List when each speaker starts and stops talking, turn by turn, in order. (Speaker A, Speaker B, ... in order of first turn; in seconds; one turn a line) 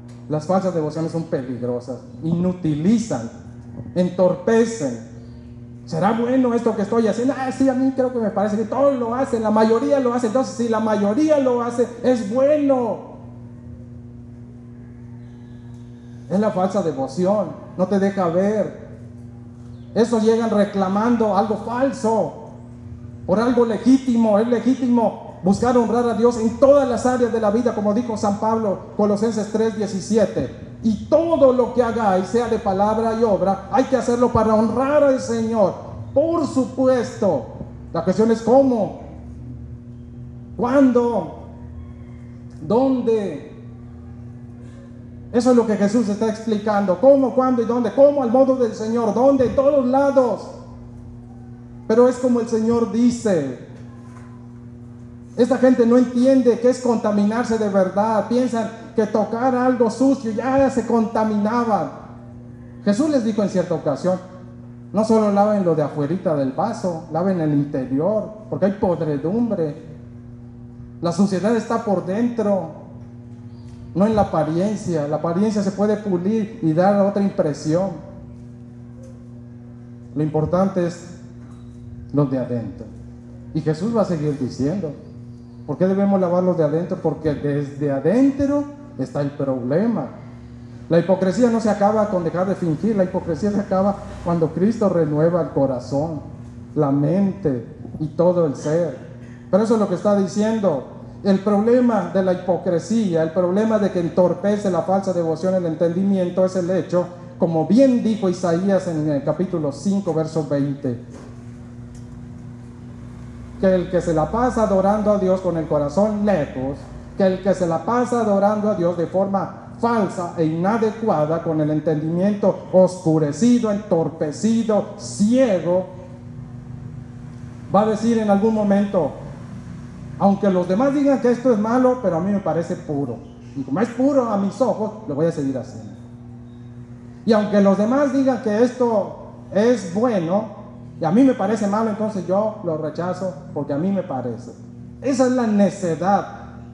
Speaker A: 0.3-3.3
Speaker A: 3.9-5.0
Speaker A: 5.8-13.2
Speaker A: 16.3-18.8
Speaker A: 19.9-22.5
Speaker A: 23.2-39.1
Speaker A: 40.5-41.4
Speaker A: 42.6-43.5
Speaker A: 45.3-50.5
Speaker A: 51.9-53.6
Speaker A: 55.4-61.9
Speaker A: 62.8-64.2
Speaker A: 64.9-69.8
Speaker A: 71.0-72.8
Speaker A: 73.9-78.0
Speaker A: 80.1-81.1
Speaker A: 82.1-82.9
Speaker A: 83.5-85.0
Speaker A: 85.7-90.1
Speaker A: 90.9-96.2
Speaker A: 96.7-111.0
Speaker A: 113.6-125.9
Speaker A: 127.7-129.1
Speaker A: 130.2-136.0
Speaker A: 137.2-146.5